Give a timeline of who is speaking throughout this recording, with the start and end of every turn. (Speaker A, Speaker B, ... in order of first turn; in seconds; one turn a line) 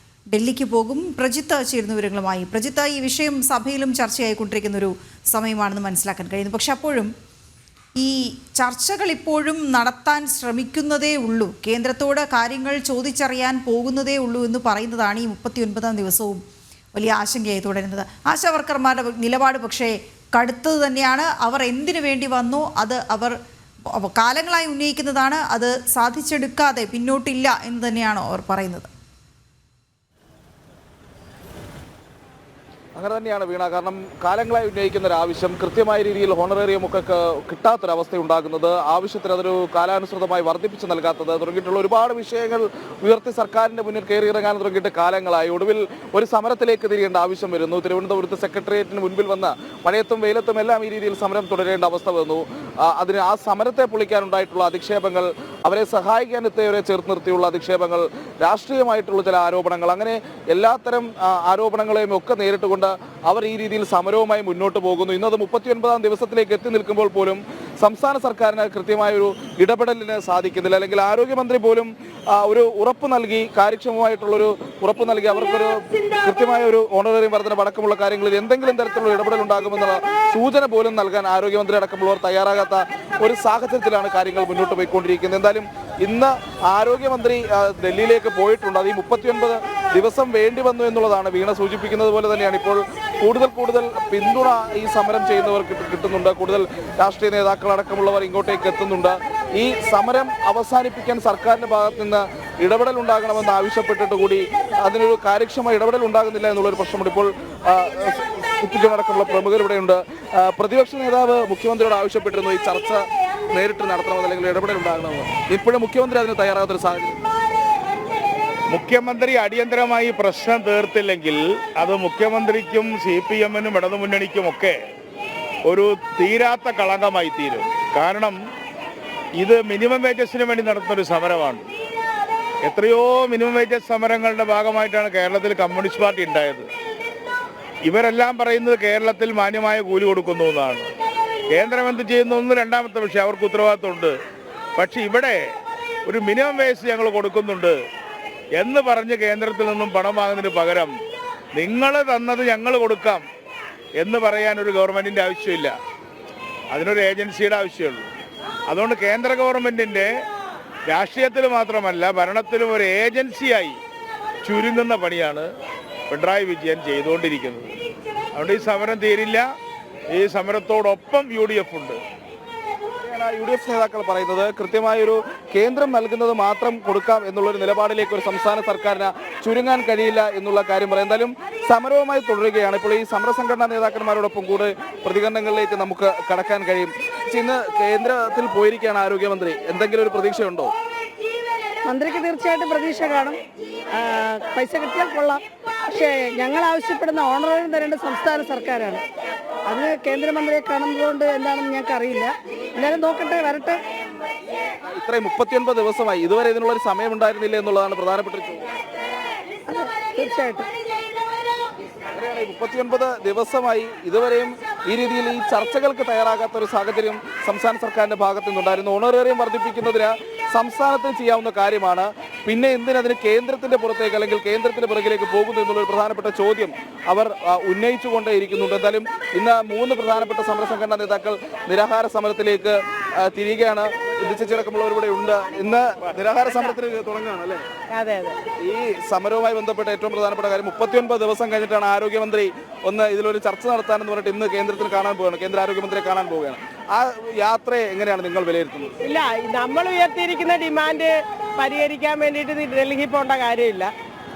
Speaker A: 0.3-7.1
Speaker A: 8.0-16.4
Speaker A: 16.9-23.4
Speaker A: 23.9-28.9
Speaker B: 33.0-113.0
Speaker B: 113.5-117.2
Speaker C: 118.7-124.8
Speaker C: 125.7-128.4
Speaker C: 129.4-131.7
Speaker C: 132.6-136.7
Speaker C: 137.8-140.9
Speaker C: 141.5-144.1
Speaker C: 144.8-145.4
Speaker C: 146.1-147.8
Speaker C: 148.6-150.9
Speaker C: 151.5-153.2
Speaker C: 154.0-155.7
Speaker C: 156.7-158.1
Speaker C: 158.7-160.1
Speaker C: 160.9-163.8
Speaker C: 164.4-165.5
Speaker C: 166.1-167.7
Speaker C: 168.3-169.5
Speaker C: 170.1-172.0
Speaker B: 173.0-190.7
Speaker D: 191.8-193.4
Speaker D: 193.9-199.0
Speaker D: 199.7-203.8
Speaker B: 204.9-208.6
Speaker D: 209.7-210.7
Speaker B: 212.1-237.7
Speaker E: 237.9-238.4
Speaker B: 238.6-248.9
Speaker E: 249.0-253.9